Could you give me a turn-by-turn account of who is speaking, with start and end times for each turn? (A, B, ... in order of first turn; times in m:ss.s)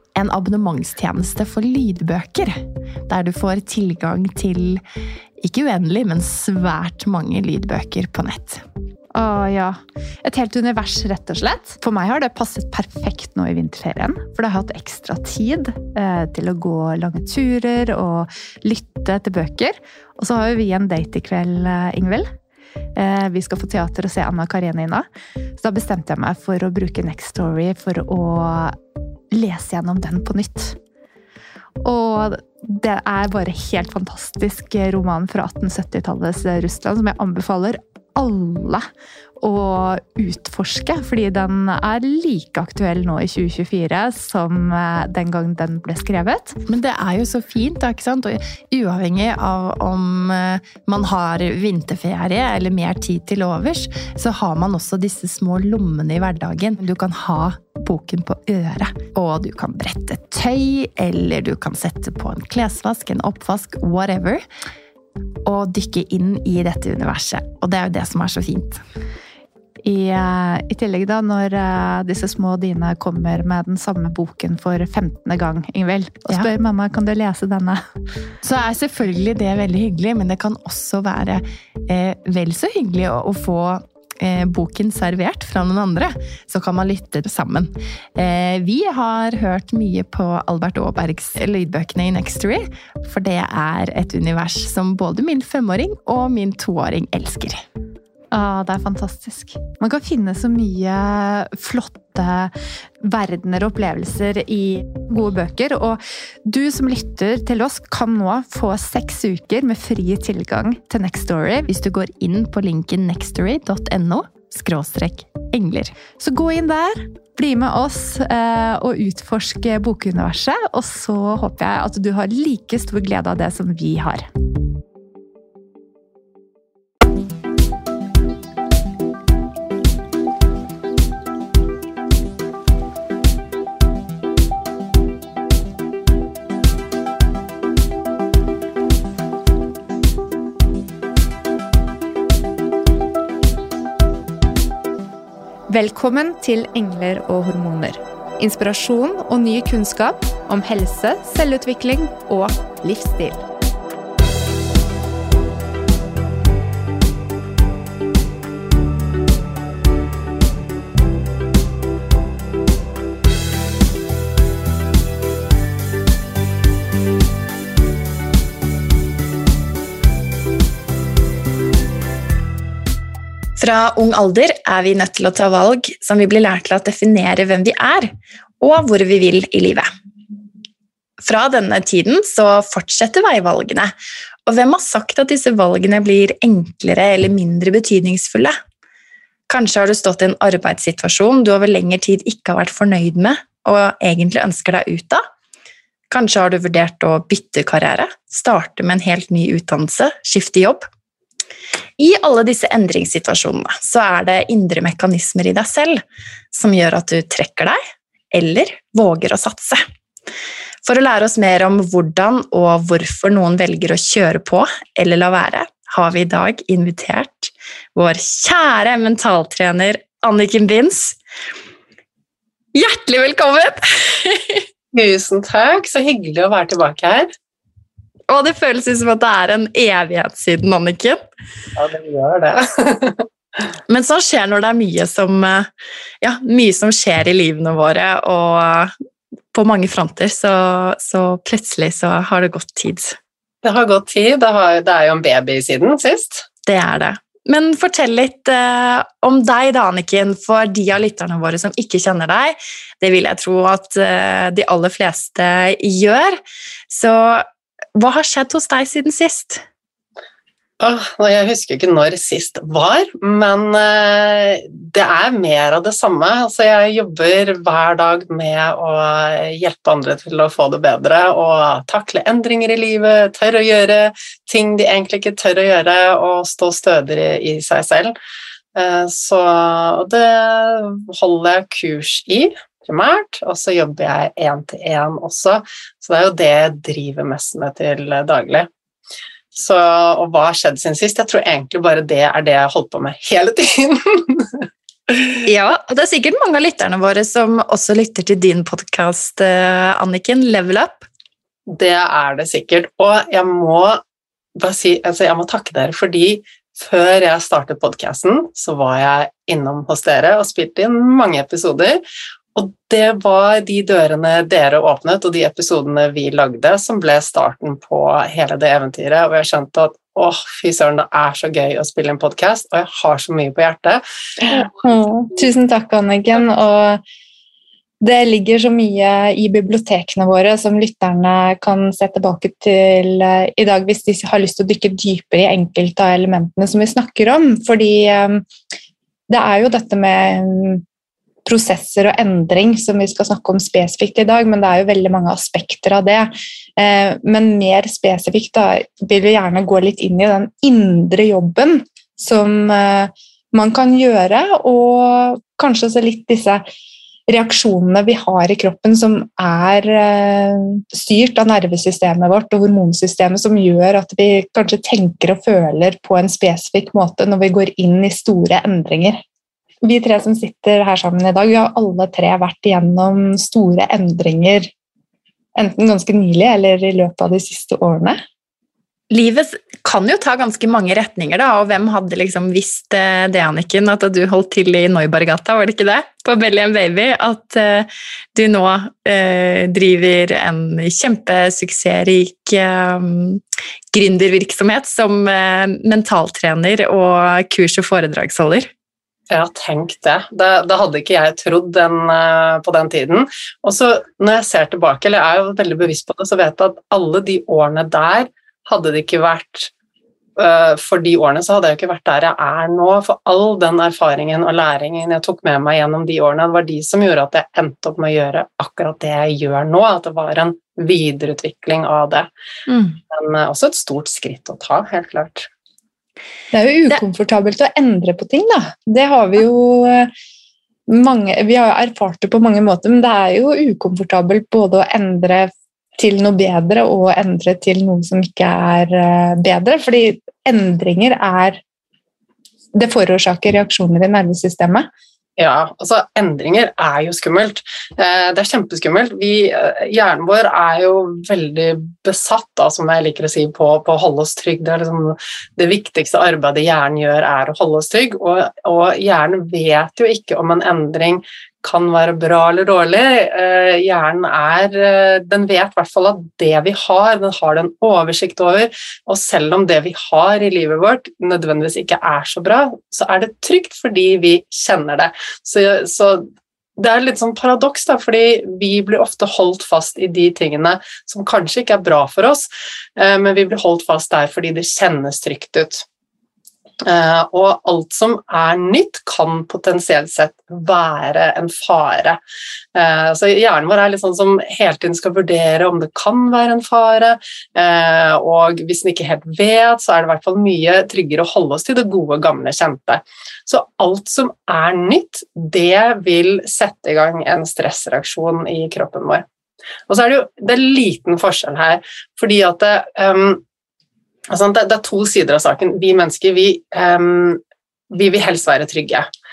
0:00.2-0:02.6 A
0:03.1-0:04.8 A
0:05.4-0:08.6 A
0:09.2-0:22.3 B
0:23.0-0:25.0 B
0:25.6-0:28.7 B
0:29.4-0:30.7 B
0:31.8-0:38.8 B
0:39.4-0:46.6 B
0:46.7-1:04.4 A
1:05.5-1:08.8 A
1:09.9-1:17.8 B
1:18.4-1:37.6 A
1:38.3-1:42.5 B
1:43.0-1:51.7 B
1:51.7-1:56.0 A
1:56.2-2:04.2 B
2:25.7-2:33.4 B
2:53.6-2:59.9 A
3:01.2-3:03.9 A
3:04.5-3:08.5 A
3:09.5-3:15.2 A
3:16.1-3:20.9 A
3:22.0-3:26.0 A
3:26.5-3:27.8 A
3:28.3-3:29.8 A
3:30.8-3:41.2 A
3:42.7-3:44.6 A
3:44.9-3:47.3 C
3:48.3-3:51.3 A
3:51.8-3:53.2 C
3:53.9-3:55.7 A
3:56.2-3:58.9 A
3:59.5-4:03.2 A
4:03.6-4:06.5 C
4:06.7-4:16.4 A
4:16.9-4:19.6 A
4:20.8-4:38.1 C
4:38.8-4:48.7 C
4:49.5-4:55.4 C
4:55.4-5:01.0 A
5:01.7-5:04.0 C
5:04.6-5:12.0 C
5:12.6-5:24.0 C
5:24.5-5:27.0 B
5:28.0-5:38.4 B
5:39.3-5:40.8 B
5:41.5-5:56.6 B
5:57.3-6:09.2 B
6:09.8-6:14.7 B
6:15.6-6:18.2 B
6:19.1-6:33.4 A
6:33.9-6:38.7 A
6:39.3-6:49.7 C
6:50.4-7:02.3 C
7:02.7-7:03.0 A
7:03.1-7:05.5 C
7:06.5-7:10.1 B
7:10.9-7:21.6 B
7:22.7-7:24.9 B
7:25.4-7:56.3 C
7:56.8-8:05.8 C
8:06.8-8:12.2 C
8:12.7-8:29.2 C
8:29.9-8:33.4 C
8:34.3-8:39.1 C